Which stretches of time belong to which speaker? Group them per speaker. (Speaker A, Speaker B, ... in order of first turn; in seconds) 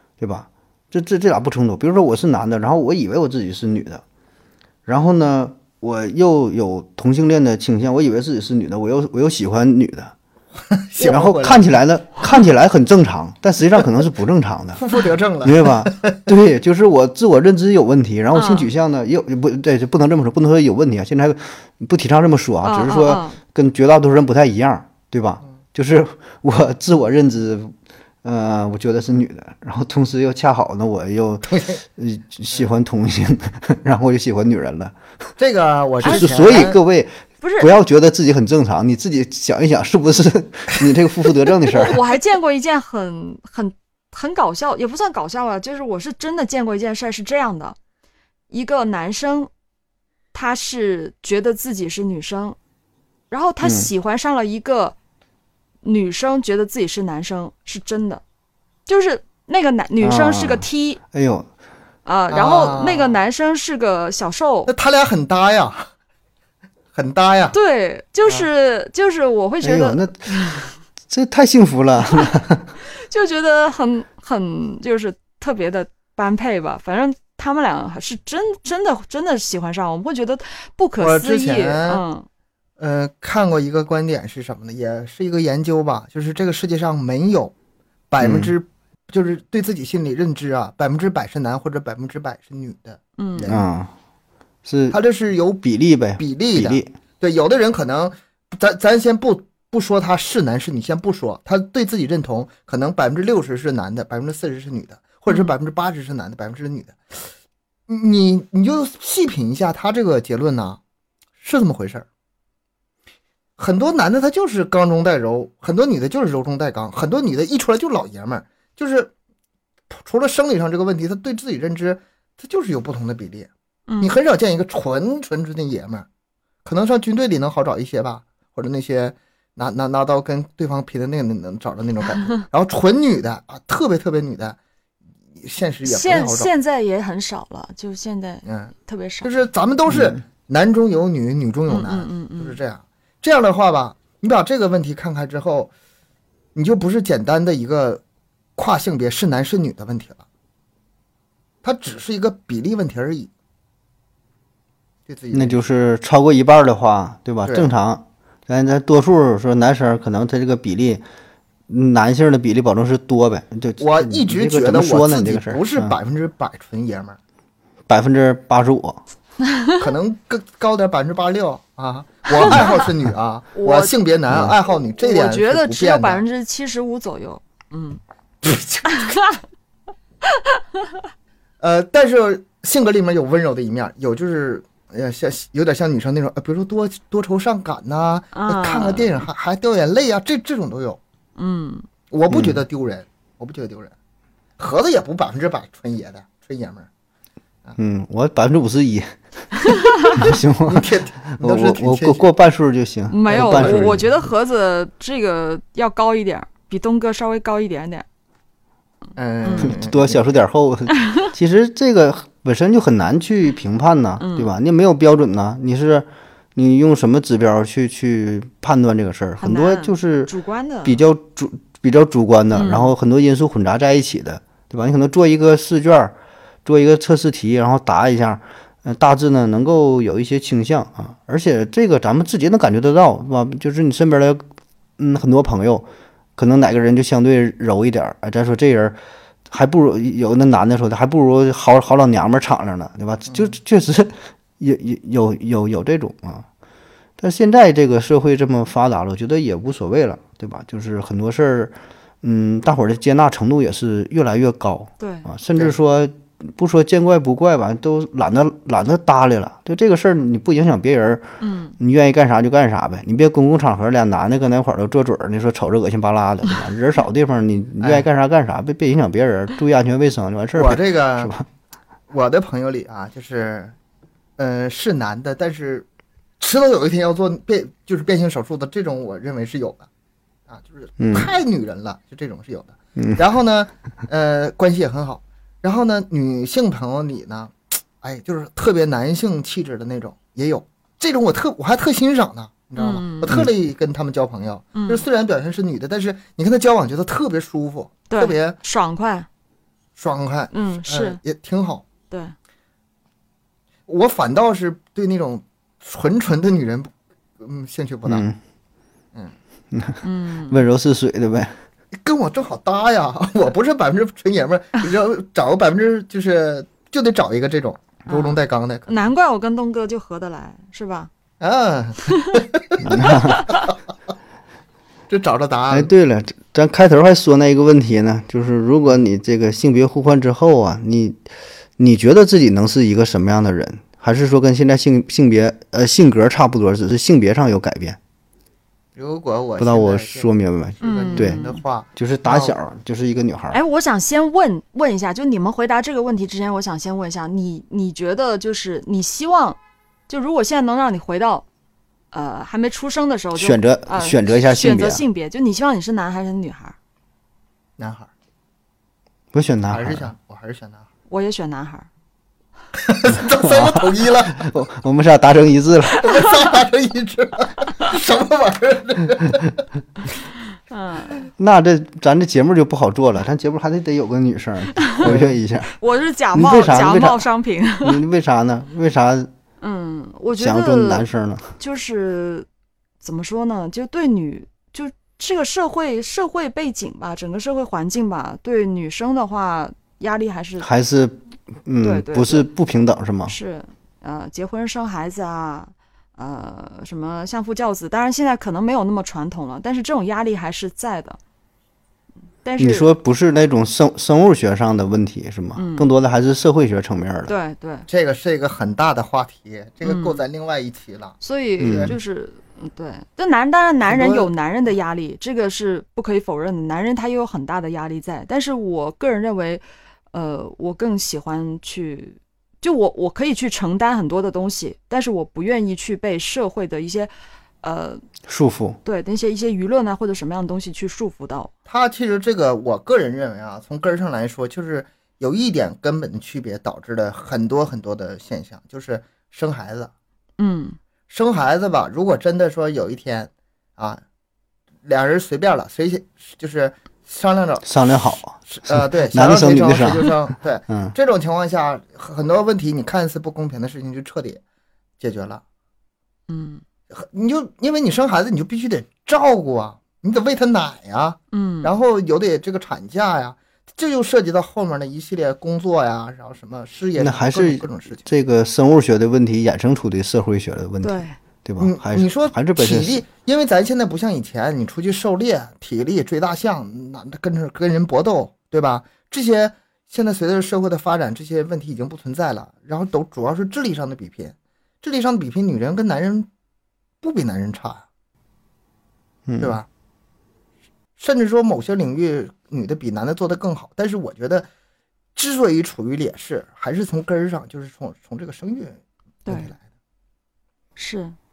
Speaker A: 0.2-4.0, 4.8-10.1, 11.0-14.8, 15.4-35.0, 36.0-42.0, 53.6-53.9, 60.0-61.5, 69.6-72.7, 88.2-88.5, 93.5-93.9, 94.6-95.0, 95.6-96.9, 155.3-161.0, 161.7-165.9, 167.9-169.0, 192.3-192.6, 197.8-204.1, 209.6-220.3, 220.8-234.4, 235.0-239.0, 239.5-246.4, 247.2-261.3, 261.8-271.4, 281.0-281.3, 308.1-308.4, 309.7-311.6, 322.8-323.5, 325.7-331.2, 331.8-338.0, 339.6-341.4, 341.9-343.6, 353.3-355.0, 359.3-360.1, 363.4-363.8, 364.4-366.0, 371.4-375.7, 376.3-377.2, 377.8-379.3, 380.3-381.6, 390.6-393.3, 402.6-407.3, 411.6-411.9, 428.3-428.8, 447.6-450.9, 467.0-473.0, 489.3-489.6
Speaker B: 10.7-11.7, 14.8-16.2, 31.4-31.8, 35.4-36.8, 62.3-63.2, 64.7-65.9, 66.9-67.5, 81.0-82.0, 82.8-87.5, 88.1-93.7, 94.9-95.6, 96.2-107.3, 107.9-110.8, 111.4-112.0, 113.6-119.1, 119.9-123.5, 124.0-126.1, 126.6-134.6, 135.4-136.5, 138.4-145.7, 146.5-148.0, 148.6-150.2, 151.6-153.3, 155.1-155.7, 157.4-157.7, 163.8-167.2, 169.8-176.2, 178.4-179.2, 181.6-191.0, 192.1-193.9, 194.6-196.9, 200.6-202.3, 203.3-204.0, 209.2-210.2, 270.5-271.3, 272.1-273.7, 274.4-275.9, 276.4-279.9, 280.5-298.6, 300.0-301.8, 303.9-308.2, 312.0-319.1, 321.4-323.8, 325.1-325.9, 338.9-342.6, 357.8-358.1, 359.7-360.9, 362.8-364.5, 366.0-369.5, 407.9-411.9, 413.9-414.3, 431.7-439.9, 441.1-444.0, 444.8-454.4, 455.0-455.4, 456.9-468.1, 471.6-486.3, 487.0-487.8, 489.4-489.7, 491.0-494.5, 495.1-499.6
Speaker C: 18.3-18.7, 22.6-23.4, 36.0-36.7, 37.4-37.7, 41.7-47.8, 48.5-49.5, 50.3-52.6, 53.3-55.0, 55.8-58.2, 58.9-61.0, 62.0-64.7, 67.5-70.7, 72.9-82.2, 93.2-93.5, 105.3-105.5, 123.9-124.1, 135.8-139.4, 141.7-142.6, 172.4-172.7, 173.5-173.9, 174.9-178.0, 179.0-179.4, 180.3-180.9, 188.3-189.2, 191.4-191.8, 203.1-208.1, 209.4-209.8, 214.2-214.5, 219.4-221.0, 222.5-222.9, 255.0-255.3, 261.4-261.8, 292.8-293.4, 294.7-295.0, 298.1-299.3, 300.5-301.2, 310.0-310.6, 318.1-321.1, 340.8-341.6, 343.5-349.6, 350.1-351.4, 352.1-356.8, 361.1-361.9, 370.7-371.3, 374.8-375.1, 375.7-378.0, 379.6-381.1, 381.6-382.5, 383.0-390.7, 391.8-392.5, 393.2-401.2, 402.4-402.9, 405.6-405.9, 407.3-407.9, 409.8-410.2, 411.2-427.1, 427.6-428.0, 428.8-431.5, 440.4-440.8, 456.3-456.6, 461.3-461.7, 470.8-471.2, 499.2-499.5, 500.8-501.1